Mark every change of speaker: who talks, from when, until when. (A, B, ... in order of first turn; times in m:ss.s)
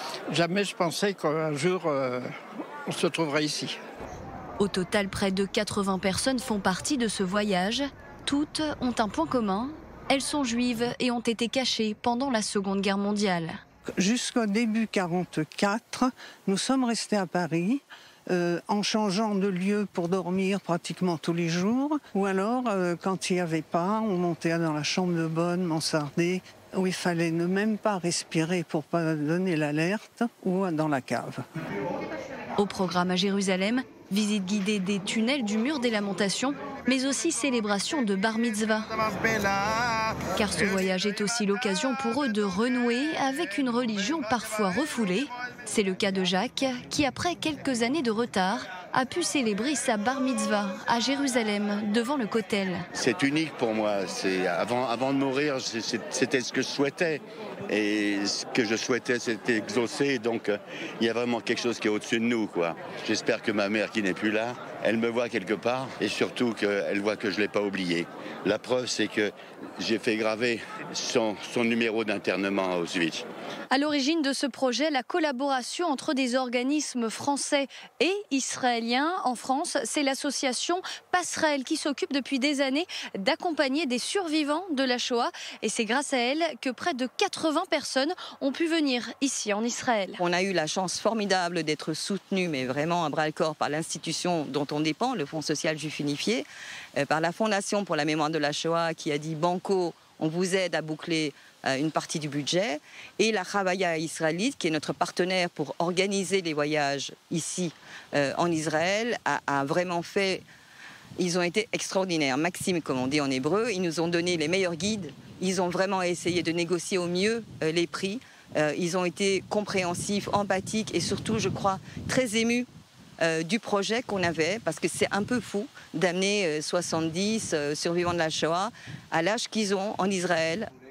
0:00.3-0:02.3 A
0:02.9-0:03.8 A
0:04.6-0:13.6 B
0:14.0-0:31.4 C
0:32.6-0:39.0 B
0:40.3-0:52.9 B
0:52.9-1:13.3 D
1:13.7-1:30.2 B
1:30.2-1:36.5 E
1:37.0-1:50.4 E
1:51.2-2:02.7 E
2:03.2-2:10.7 E